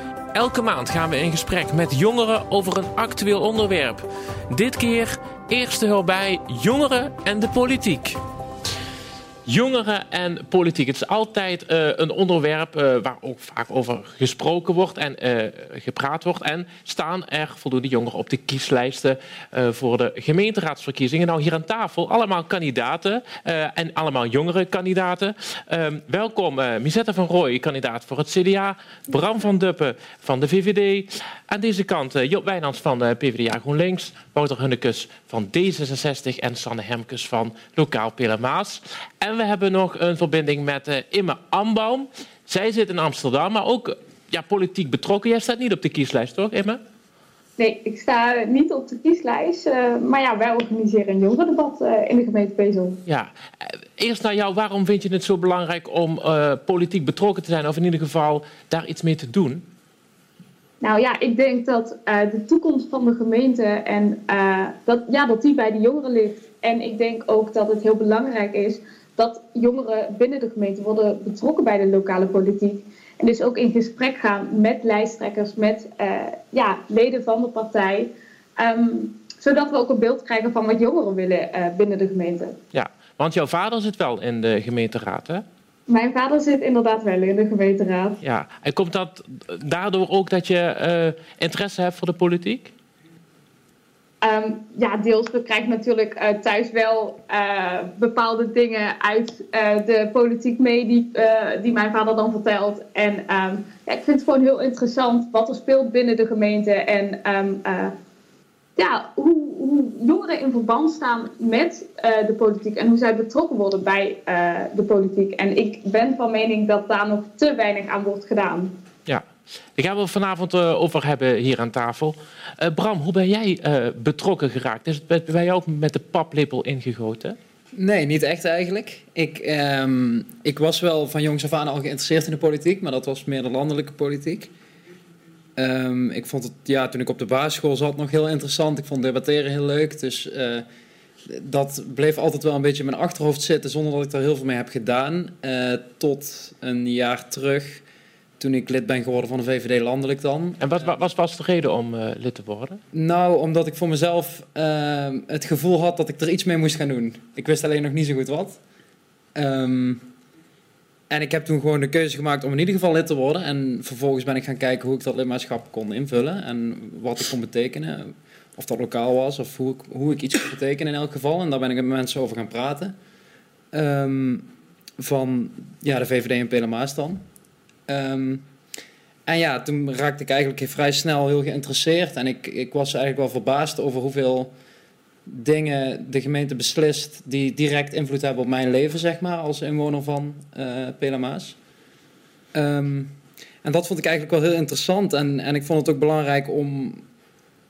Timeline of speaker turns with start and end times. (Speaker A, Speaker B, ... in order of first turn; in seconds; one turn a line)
Speaker A: 0.3-8.2
Speaker A: 9.4-46.8
Speaker B: 47.6-53.0
Speaker A: 53.1-59.6
Speaker B: 60.8-82.6
Speaker A: 82.7-85.4
Speaker B: 85.9-88.2
Speaker A: 88.2-92.7
Speaker B: 94.2-107.9
Speaker B: 108.8-118.7
Speaker A: 119.1-127.4
Speaker C: 127.7-134.5
Speaker C: 135.6-140.7
Speaker C: 141.3-147.8
Speaker C: 148.4-150.6
Speaker A: 150.6-152.8
Speaker C: 152.9-158.6
Speaker C: 159.3-160.1
Speaker C: 161.1-172.9
Speaker C: 173.7-174.5
Speaker C: 175.0-177.2
Speaker C: 177.9-178.4
Speaker C: 179.3-184.5
Speaker C: 185.3-191.6
Speaker C: 192.5-197.0